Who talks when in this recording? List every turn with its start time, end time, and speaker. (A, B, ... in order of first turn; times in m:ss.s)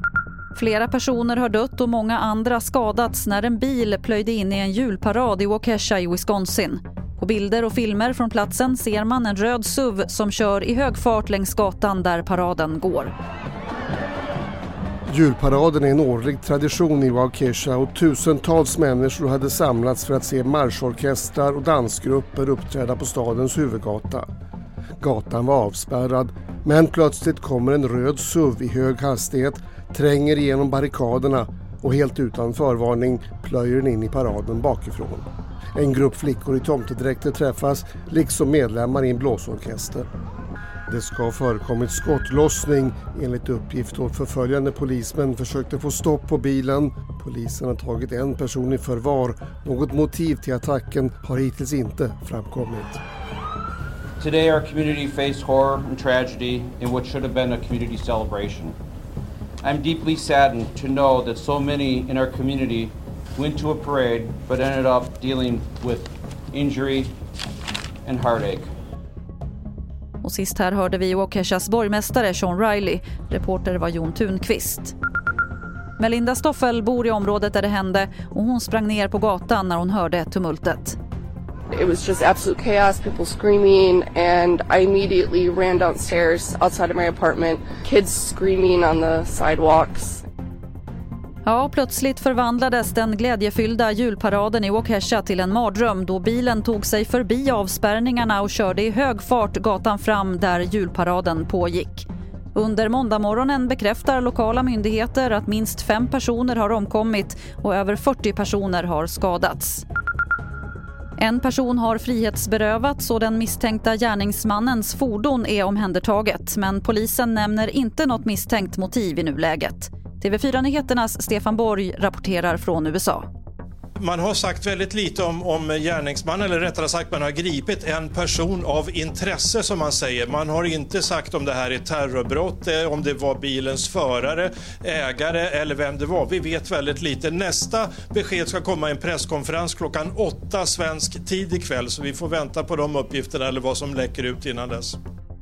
0:00.5-0:13.1 A
0:15.1-0:24.3 B
0:25.0-0:40.1 B
0:40.9-0:53.0 B
0:54.2-0:58.8 C
0:59.6-1:07.1 C
1:08.0-1:08.7 C
1:10.2-1:14.9 A
1:16.0-1:21.0 A
1:21.7-1:30.2 D
1:31.4-1:49.8 A
1:51.2-2:03.2 A
2:04.0-2:25.0 E